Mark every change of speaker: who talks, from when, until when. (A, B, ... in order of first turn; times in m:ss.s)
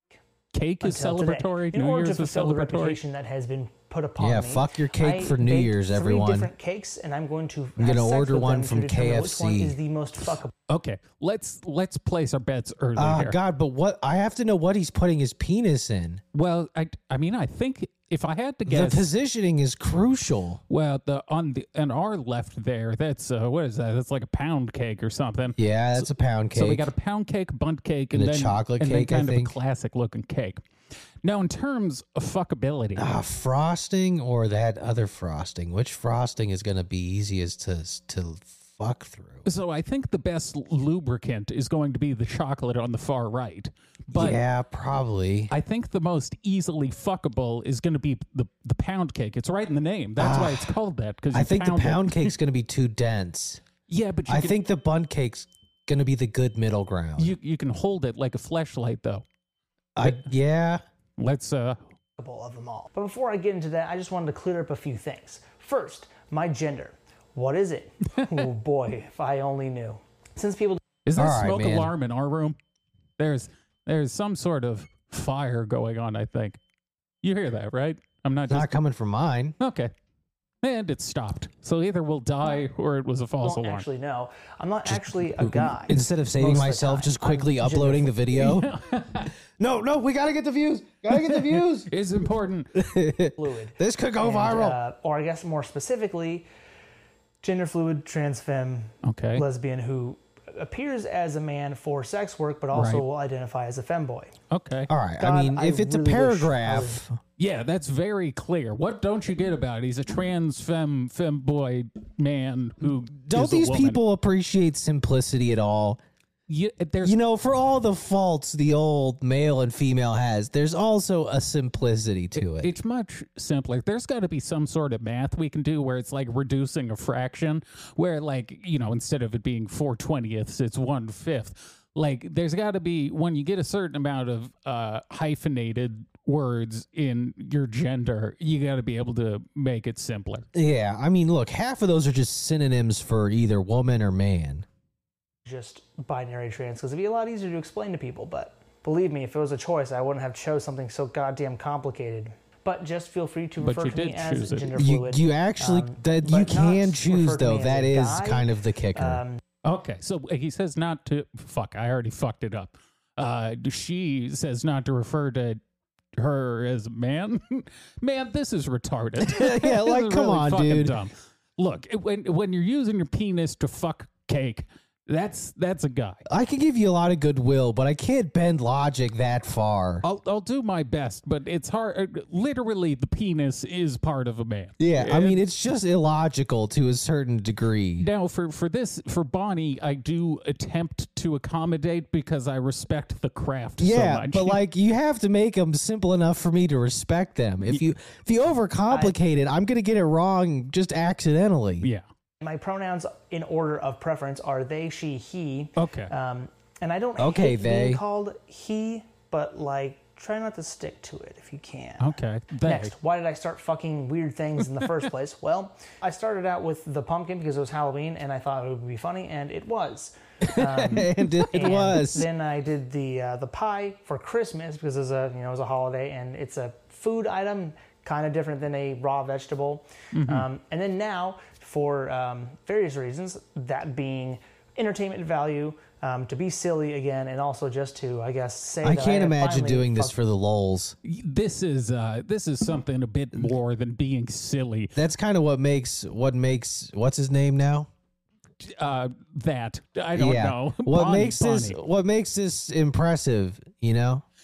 0:00.5-0:03.0 A
0:00.8-0:10.5 B
0:04.2-0:06.5 C
0:07.8-0:09.8 C
0:10.7-0:13.4 A
0:13.0-0:16.2 C
0:16.3-0:19.1 A
0:18.6-0:20.6 C
0:20.7-0:30.6 A
0:25.6-0:26.9 C
0:28.1-0:29.5 C
0:31.2-0:33.1 A
0:33.0-0:39.4 C
0:39.4-0:44.4 A
0:44.1-0:45.5 C
0:45.5-0:52.3 A
0:50.2-0:50.7 C
0:51.3-0:53.6 C
0:53.9-0:54.6 A
0:54.3-0:57.3 C
0:57.2-0:59.2 A
1:00.0-1:00.8 C
1:01.2-1:01.8 A
1:02.2-1:10.8 B
1:11.0-1:12.6 A
1:11.1-1:11.9 C
1:13.2-1:16.6 A
1:17.2-1:18.7 A
1:18.5-1:19.6 C
1:19.6-1:19.9 A
1:20.6-1:23.8 A
1:23.4-1:28.4 B
1:24.8-1:28.7 C
1:28.4-1:29.3 A
1:29.6-1:31.9 C
1:31.1-1:32.8 A
1:32.7-1:34.8 C
1:33.4-1:36.5 B
1:37.4-1:44.3 B
1:39.0-1:39.4 A
1:42.7-1:43.0 A
1:44.5-1:44.9 A
1:44.9-1:47.2 C
1:45.2-1:47.0 B
1:47.4-1:54.0 A
1:52.8-1:56.0 C
1:56.5-1:57.2 A
1:57.0-2:02.7 C
2:02.4-2:20.4 A
2:20.5-2:24.6 C
2:25.4-2:39.4 B
2:33.6-2:34.7 A
2:34.8-2:39.2 C
2:39.6-2:45.6 A
2:46.2-2:56.2 A
2:49.2-2:50.9 C
2:56.3-3:00.0 C
3:00.0-3:05.4 A
3:04.8-3:08.1 C
3:08.0-3:14.6 A
3:13.8-3:21.9 C
3:18.9-3:19.2 B
3:22.4-4:00.2 B
3:25.8-3:26.1 A
3:27.2-3:28.0 C
3:32.0-3:32.9 A
3:40.5-3:42.3 C
3:50.1-3:50.5 A
3:58.8-4:01.0 C
4:01.0-4:04.9 A
4:05.0-4:07.9 C
4:08.6-4:11.8 A
4:10.2-4:14.2 C